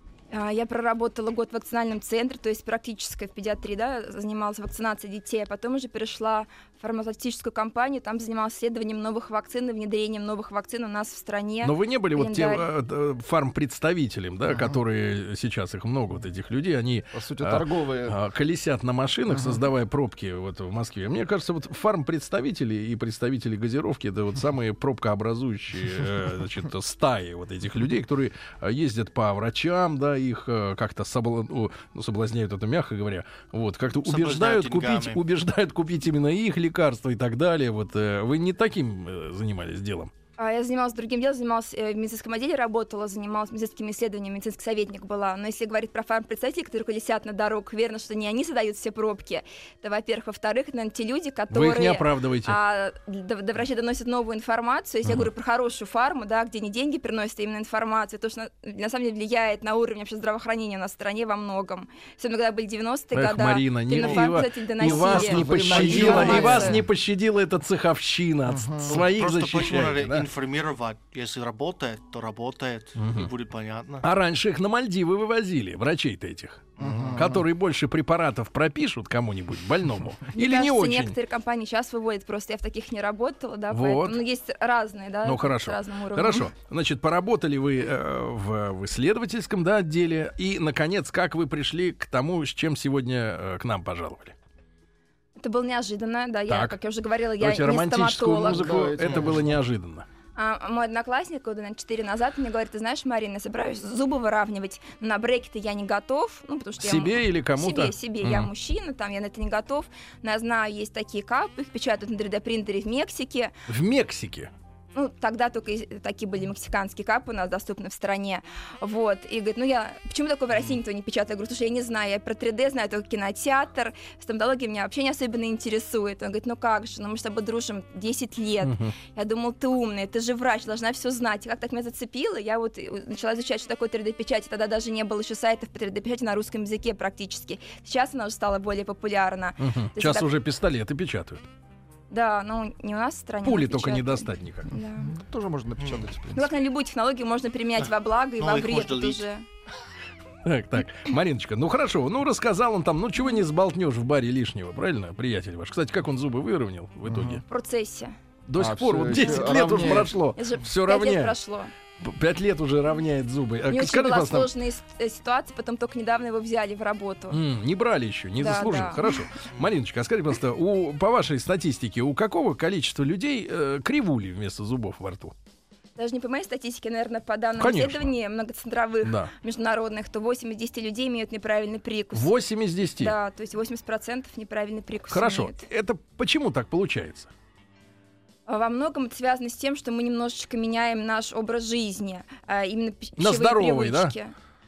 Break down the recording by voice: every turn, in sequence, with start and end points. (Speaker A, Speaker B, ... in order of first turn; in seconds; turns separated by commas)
Speaker A: 0.3-12.7, Speaker B: 11.6-40.1, Speaker C: 17.1-18.2, Speaker C: 19.3-19.6, Speaker D: 34.0-35.2, Speaker A: 40.4-66.8, Speaker B: 51.5-52.6, Speaker B: 63.1-70.3, Speaker C: 64.8-66.8, Speaker C: 68.5-69.0, Speaker D: 68.8-74.1, Speaker B: 73.0-73.3, Speaker B: 74.0-81.2, Speaker D: 76.8-77.3, Speaker C: 76.8-77.4, Speaker A: 80.3-86.5, Speaker B: 83.7-84.2, Speaker B: 85.2-94.3, Speaker A: 95.4-98.8, Speaker B: 96.5-96.8, Speaker B: 97.4-100.1, Speaker C: 98.5-99.6, Speaker A: 100.4-113.5, Speaker B: 106.8-108.5, Speaker B: 113.7-114.5, Speaker A: 114.9-140.3, Speaker B: 128.6-128.9, Speaker B: 139.6-141.4, Speaker A: 142.1-145.1, Speaker B: 143.4-144.8, Speaker C: 145.0-146.5, Speaker D: 145.8-146.1, Speaker A: 146.3-149.4, Speaker D: 148.4-149.2, Speaker B: 150.4-157.4, Speaker C: 157.1-157.4, Speaker A: 157.5-158.1, Speaker B: 158.5-161.4, Speaker C: 158.6-160.1, Speaker A: 159.1-161.7, Speaker B: 162.0-164.5, Speaker A: 163.7-167.4, Speaker B: 167.3-175.3, Speaker A: 168.4-169.2, Speaker A: 176.0-182.3, Speaker B: 177.6-178.1, Speaker B: 179.0-179.3, Speaker B: 182.1-183.2, Speaker A: 183.0-185.7, Speaker B: 185.1-187.3, Speaker A: 188.5-194.3, Speaker B: 193.2-194.1